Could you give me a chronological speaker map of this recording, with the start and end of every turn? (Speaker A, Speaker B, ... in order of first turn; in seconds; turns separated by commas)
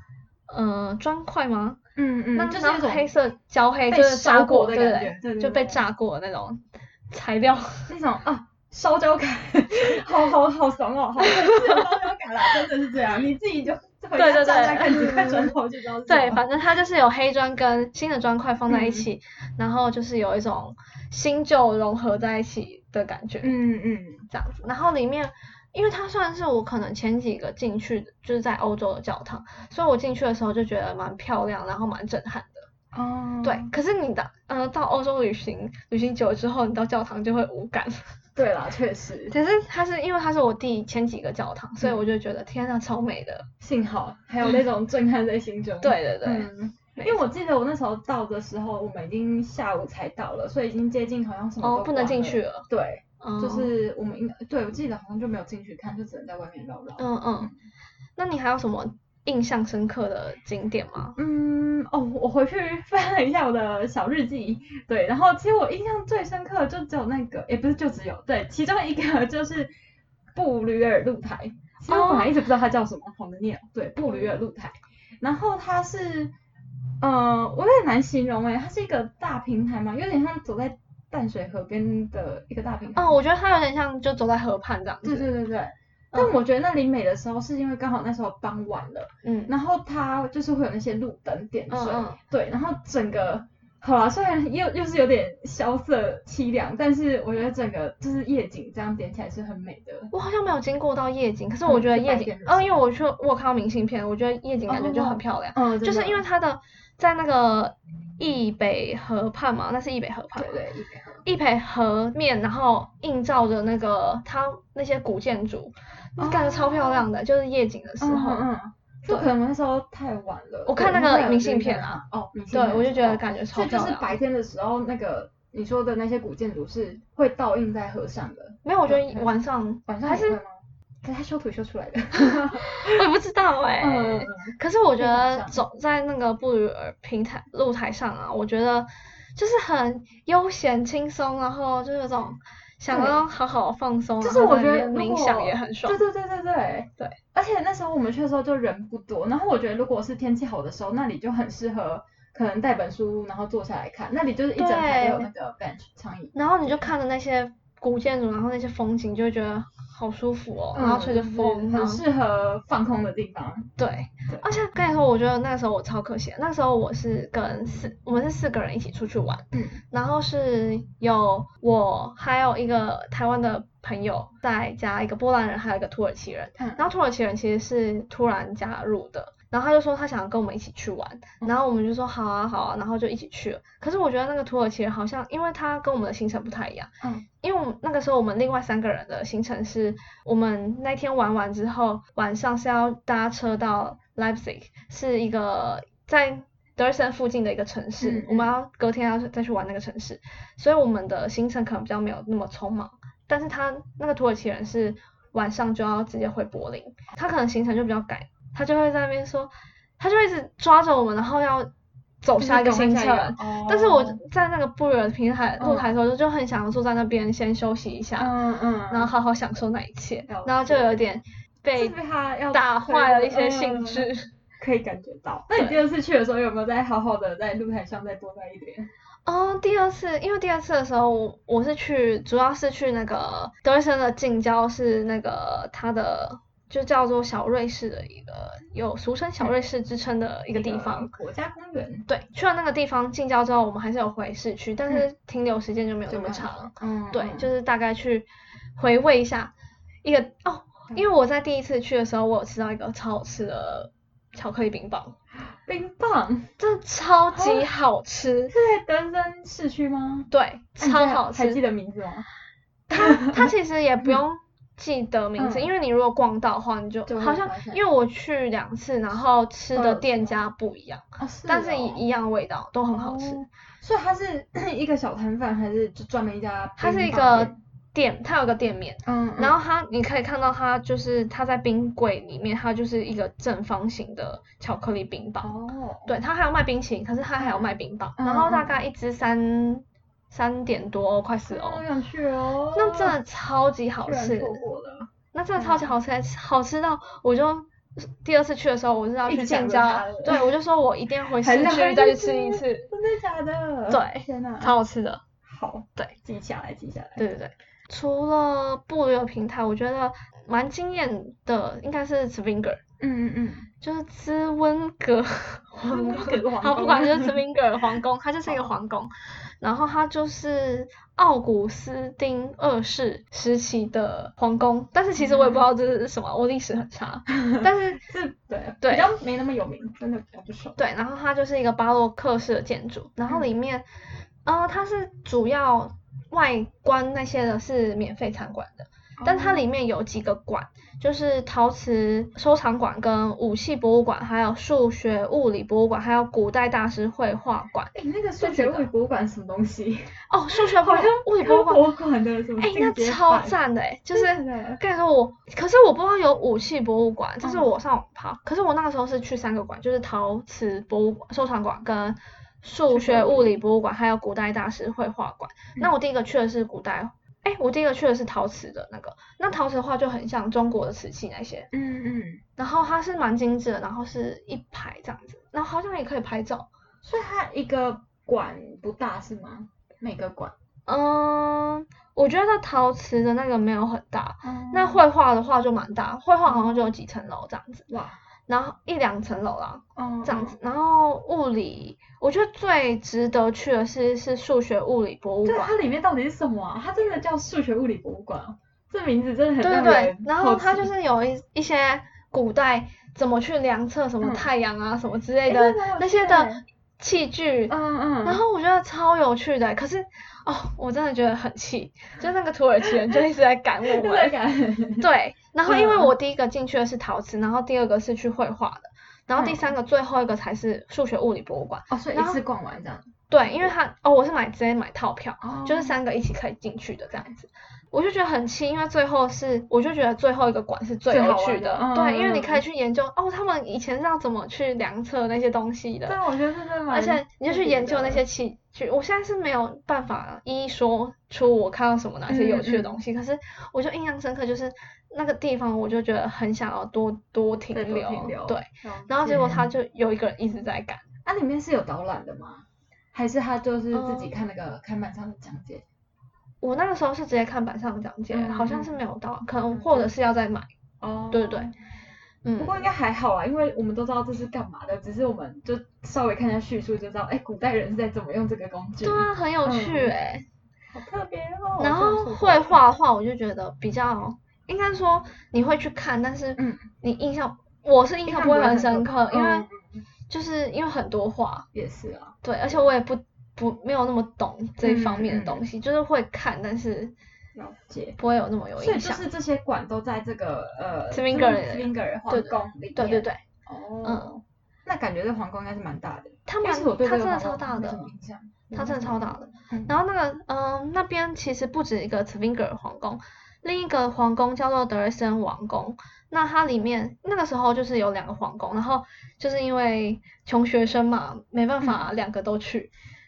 Speaker A: 0.5-1.8, Speaker B: 2.0-3.1, Speaker A: 2.4-7.9, Speaker B: 3.9-5.8, Speaker B: 7.9-16.5, Speaker A: 11.2-11.9, Speaker A: 14.2-15.5, Speaker A: 16.1-23.5, Speaker B: 18.7-19.1, Speaker B: 23.4-24.3, Speaker A: 24.3-32.7, Speaker B: 32.9-33.7, Speaker A: 33.4-38.2, Speaker B: 38.4-39.3, Speaker A: 39.3-43.5, Speaker B: 43.6-57.6, Speaker A: 45.8-47.2, Speaker A: 51.6-52.7, Speaker A: 53.2-53.7, Speaker A: 57.0-57.5, Speaker A: 58.2-61.2, Speaker B: 61.1-69.7, Speaker B: 70.3-76.3, Speaker A: 71.9-72.3, Speaker B: 77.0-83.2, Speaker A: 83.0-85.3, Speaker B: 85.0-100.1, Speaker A: 89.2-89.5, Speaker A: 91.7-92.2, Speaker A: 100.1-110.5, Speaker B: 101.7-102.8, Speaker B: 104.7-106.2, Speaker B: 110.4-111.2, Speaker A: 111.2-118.4, Speaker B: 116.2-117.1, Speaker B: 118.0-133.0, Speaker A: 120.7-124.1, Speaker A: 128.6-130.4, Speaker A: 132.1-146.0, Speaker B: 133.8-135.6, Speaker B: 142.9-143.2, Speaker B: 144.2-156.8, Speaker A: 154.6-155.3, Speaker A: 156.3-162.0, Speaker B: 160.7-163.7, Speaker A: 163.8-211.7, Speaker B: 169.5-169.8, Speaker B: 176.6-176.8, Speaker B: 198.0-198.6, Speaker A: 212.2-218.3, Speaker B: 212.4-214.2, Speaker B: 215.6-215.9, Speaker B: 218.2-219.1, Speaker A: 218.9-221.9, Speaker B: 220.3-221.0, Speaker B: 221.8-228.9, Speaker A: 222.5-224.3, Speaker A: 229.3-241.1, Speaker B: 240.5-242.1, Speaker A: 242.1-249.5, Speaker B: 246.1-247.5, Speaker A: 250.0-255.2, Speaker B: 255.5-256.5, Speaker A: 256.6-258.5, Speaker B: 257.4-257.7, Speaker B: 258.5-262.3, Speaker A: 260.3-261.6, Speaker A: 262.9-273.5, Speaker B: 262.9-263.5, Speaker B: 265.4-265.7, Speaker B: 267.1-267.8, Speaker B: 269.8-270.4, Speaker B: 271.2-272.1, Speaker B: 272.9-277.6, Speaker A: 276.8-285.5, Speaker B: 279.0-279.6, Speaker B: 285.4-286.1, Speaker A: 286.1-291.8, Speaker B: 287.4-288.8, Speaker B: 291.5-293.2, Speaker A: 292.8-294.6, Speaker B: 294.0-295.9, Speaker A: 295.3-302.9, Speaker B: 299.3-300.5, Speaker B: 301.3-304.8, Speaker A: 303.9-305.2, Speaker B: 305.4-307.2, Speaker A: 307.2-312.8, Speaker B: 313.0-313.7, Speaker A: 313.8-328.0, Speaker B: 315.8-317.4, Speaker B: 325.2-325.7, Speaker B: 327.5-330.8, Speaker A: 328.8-329.1, Speaker A: 330.8-333.8, Speaker A: 334.4-348.9, Speaker B: 339.2-339.7, Speaker B: 347.9-353.6, Speaker A: 350.3-351.9, Speaker A: 352.6-371.7, Speaker B: 354.1-354.8, Speaker B: 357.4-357.7, Speaker B: 362.9-363.6, Speaker B: 371.7-372.4, Speaker A: 372.6-376.7, Speaker B: 377.0-380.5, Speaker A: 380.9-387.9, Speaker B: 384.4-385.0, Speaker B: 386.5-386.9, Speaker B: 387.9-388.2, Speaker A: 388.5-395.7, Speaker B: 390.0-390.6, Speaker B: 395.4-400.9, Speaker A: 399.6-414.4, Speaker B: 404.2-404.5, Speaker B: 405.5-406.6, Speaker B: 407.7-408.4, Speaker B: 413.8-415.1, Speaker A: 415.0-422.4, Speaker B: 415.6-416.1, Speaker B: 419.4-419.7, Speaker B: 421.9-423.7, Speaker A: 423.3-436.2, Speaker B: 425.4-426.0, Speaker B: 431.1-432.6, Speaker B: 436.1-438.2, Speaker A: 436.9-451.1, Speaker B: 442.3-443.0, Speaker B: 447.7-449.7, Speaker B: 451.2-455.9, Speaker A: 453.9-454.3, Speaker A: 456.6-460.7, Speaker B: 458.3-459.0, Speaker B: 459.7-460.1, Speaker B: 461.0-461.8, Speaker A: 461.3-461.7, Speaker A: 462.4-462.8, Speaker B: 462.6-470.1, Speaker A: 469.0-470.5, Speaker B: 470.9-472.8, Speaker A: 471.8-479.7, Speaker B: 476.6-476.9, Speaker B: 478.3-480.0, Speaker A: 480.3-481.7, Speaker B: 481.7-482.9, Speaker A: 482.4-487.1, Speaker B: 484.8-485.6, Speaker B: 487.6-488.2, Speaker A: 488.2-489.2, Speaker B: 488.8-499.9, Speaker A: 491.1-493.4, Speaker A: 494.0-494.3, Speaker A: 496.5-498.1, Speaker A: 498.7-512.9